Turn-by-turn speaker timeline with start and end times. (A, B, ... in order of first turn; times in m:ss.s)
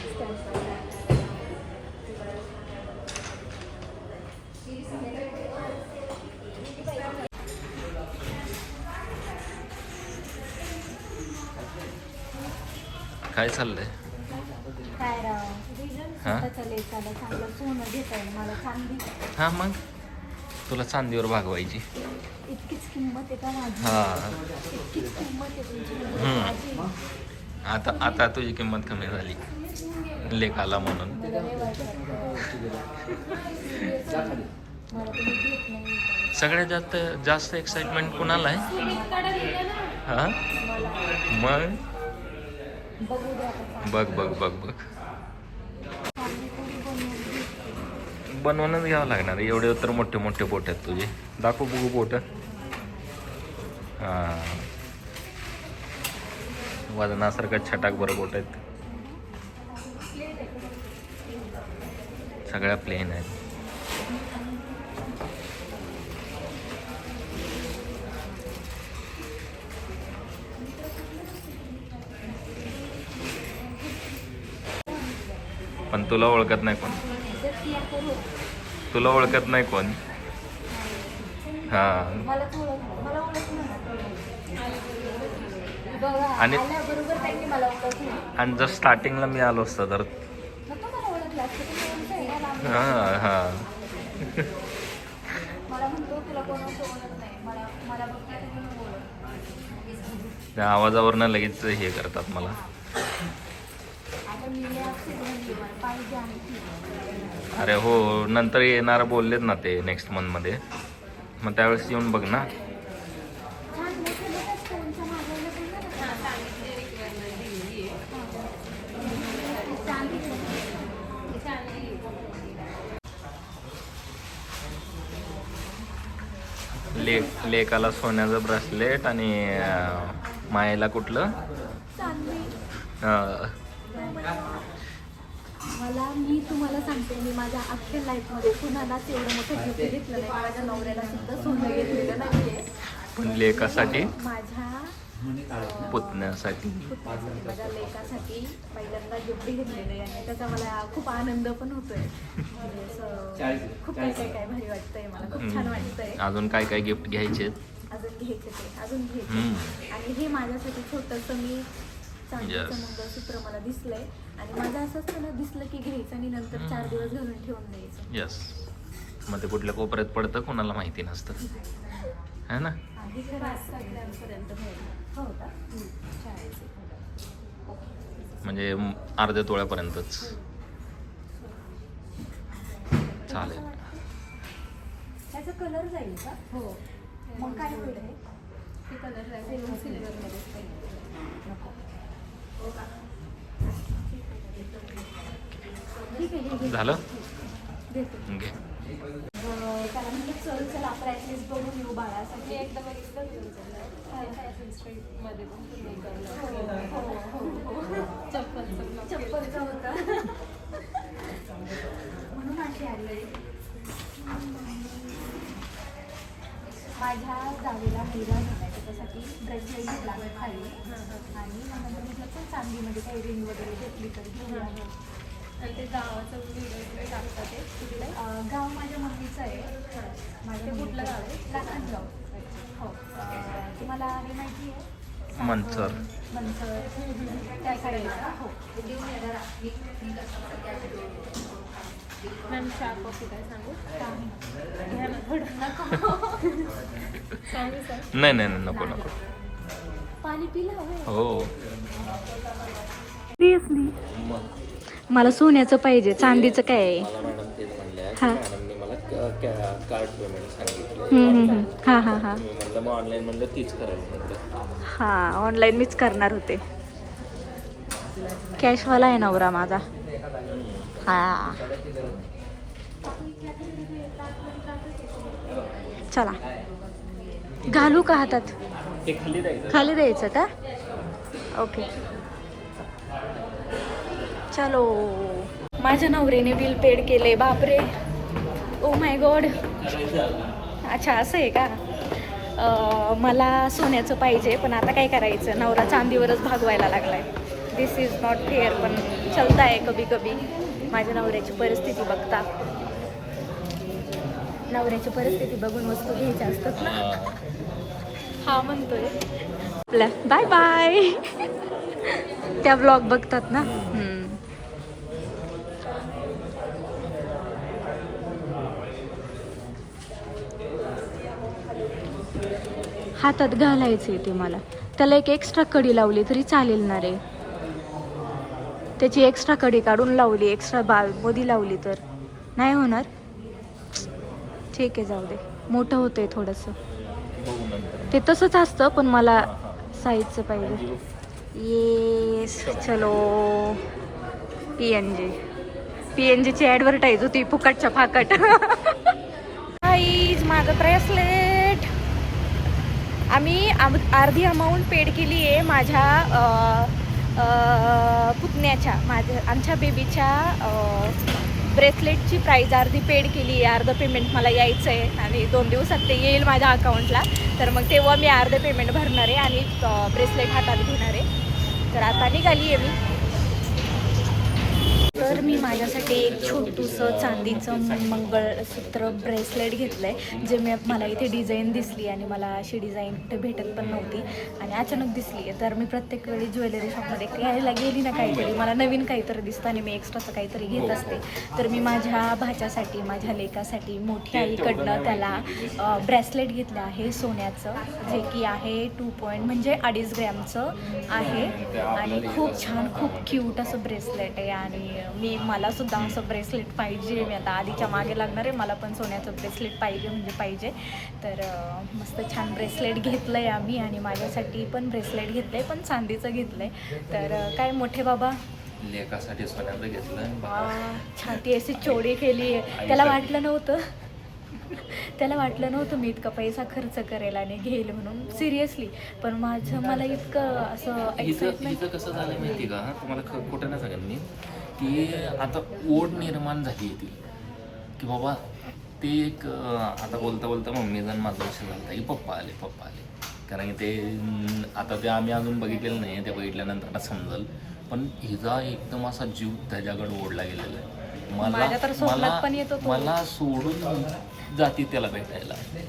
0:00.2-0:00.8 A
0:13.3-0:13.9 B
0:14.9-0:19.0 A
0:16.2-0:16.5 B
0:19.4-0:19.8 B
0:20.7-0:21.8 B
0:22.5-0:26.9 A
0:23.8-0:24.4 B
0:26.2-0:26.6 B
0:27.7-0:29.4 B
0:30.2-0:31.2 B
0:31.1-0:32.6 A
0:33.0-0:33.4 B
0:33.5-0:36.3 A
0:36.3-0:38.7 B
0:38.6-0:39.5 A
0:40.0-0:40.4 B
0:40.6-0:41.4 A
0:41.3-0:41.8 B
0:43.0-0:44.3 A
0:43.8-0:44.8 B
0:46.2-0:47.6 A
0:48.3-0:52.2 B
0:54.0-0:54.7 B
0:56.9-0:58.6 B
0:58.9-0:59.2 A
0:59.8-1:00.5 A
1:02.5-1:03.3 B
1:04.1-1:04.9 A
1:10.8-1:11.7 A
1:15.9-1:17.0 B
1:16.9-1:18.3 A
1:18.9-1:20.0 B
1:20.8-1:21.1 A
1:21.7-1:22.2 B
1:22.2-1:24.1 A
1:24.7-1:25.6 C
1:25.9-1:28.2 A
1:26.4-1:26.6 B
1:28.4-1:30.1 B
1:30.7-1:33.3 A
1:32.6-1:33.7 B
1:34.2-1:34.5 B
1:35.7-1:39.1 A
1:40.6-1:42.6 B
1:42.5-1:42.7 A
1:44.3-1:46.9 A
1:47.5-1:50.6 B
1:51.4-1:52.5 B
1:53.7-1:56.6 A
1:56.2-1:57.9 C
1:58.1-1:58.5 A
1:59.0-2:01.3 A
2:01.5-2:01.8 C
2:06.9-2:11.3 B
2:12.0-2:12.5 A
2:13.0-2:13.5 B
2:13.9-2:14.8 A
2:15.7-2:25.0 A
2:23.2-2:24.1 B
2:25.5-2:26.3 A
2:25.9-2:26.9 B
2:26.8-2:36.2 A
2:35.2-2:37.6 B
2:37.9-2:41.7 A
2:39.3-2:39.8 B
2:42.3-2:48.1 A
2:42.4-2:43.0 B
2:46.5-2:47.1 B
2:48.1-2:48.7 B
2:49.3-2:51.4 B
2:52.5-2:52.8 B
2:53.0-2:56.7 A
2:53.4-2:54.8 C
2:58.4-3:00.4 B
3:03.1-3:04.0 A
3:03.3-3:03.8 B
3:05.3-3:06.7 A
3:07.3-3:08.2 A
3:08.9-3:10.3 C
3:09.3-3:10.8 A
3:11.4-3:11.7 A
3:14.1-3:15.0 A
3:16.1-3:17.0 A
3:16.6-3:17.0 B
3:17.9-3:18.3 A
3:18.3-3:18.6 B
3:19.4-3:22.7 A
3:22.5-3:27.0 C
3:24.1-3:24.4 A
3:26.3-3:28.2 A
3:28.2-3:29.2 C
3:29.0-3:31.0 A
3:32.3-3:33.3 A
3:34.2-3:35.5 A
3:37.0-3:40.8 A
3:41.3-3:44.9 A
3:45.6-3:48.1 C
3:48.1-3:49.7 A
3:50.4-3:56.9 A
3:50.6-3:51.6 C
3:55.4-3:56.0 B
3:57.3-3:57.9 C
3:57.5-3:58.6 A
4:02.5-4:03.8 C
4:03.9-4:06.6 A
4:04.9-4:05.5 C
4:07.1-4:07.4 B
4:07.4-4:09.0 A
4:08.1-4:09.2 B
4:10.2-4:11.1 A
4:11.1-4:11.5 B
4:13.4-4:13.9 A
4:14.1-4:14.5 B
4:15.1-4:17.1 A
4:16.2-4:24.4 B
4:21.1-4:22.4 A
4:24.9-4:26.6 A
4:28.6-4:29.8 A
4:30.5-4:30.9 B
4:31.0-4:31.7 A
4:33.4-4:35.4 C
4:36.1-4:36.4 A
4:37.7-4:38.5 A
4:39.0-4:39.9 B
4:39.7-4:40.5 A
4:41.6-4:41.9 A
4:44.5-4:47.9 A
4:48.8-4:49.5 A
4:49.8-4:50.5 B
4:50.9-5:02.4 A
5:04.7-5:07.0 A
5:06.7-5:07.4 B
5:08.4-5:09.1 A
5:09.9-5:11.2 A
5:12.0-5:14.4 A
5:13.6-5:14.0 B
5:23.2-5:27.2 A
5:29.0-5:32.0 A
5:32.6-5:33.1 A
5:34.7-5:36.7 A
5:37.4-5:38.2 B
5:38.1-5:40.8 A
5:39.3-5:39.8 B
5:40.6-5:41.1 B
5:41.6-5:43.8 A
5:42.5-5:43.1 B
5:44.8-5:45.4 A
5:46.2-5:49.1 A
5:49.8-5:51.9 A
5:53.3-6:11.2 A
6:11.9-6:13.0 A
6:15.1-6:58.4 A
6:15.2-6:21.6 B
6:23.8-6:24.2 B
6:28.1-6:28.6 B
6:30.8-6:31.2 B
6:34.3-6:36.1 B
6:41.2-6:43.4 B
6:58.8-7:02.2 B
7:00.4-7:03.8 A
7:02.7-7:03.4 B
7:04.7-7:11.8 A
7:11.2-7:17.2 B
7:18.0-7:18.4 B
7:19.0-7:35.6 B
7:31.4-7:33.1 A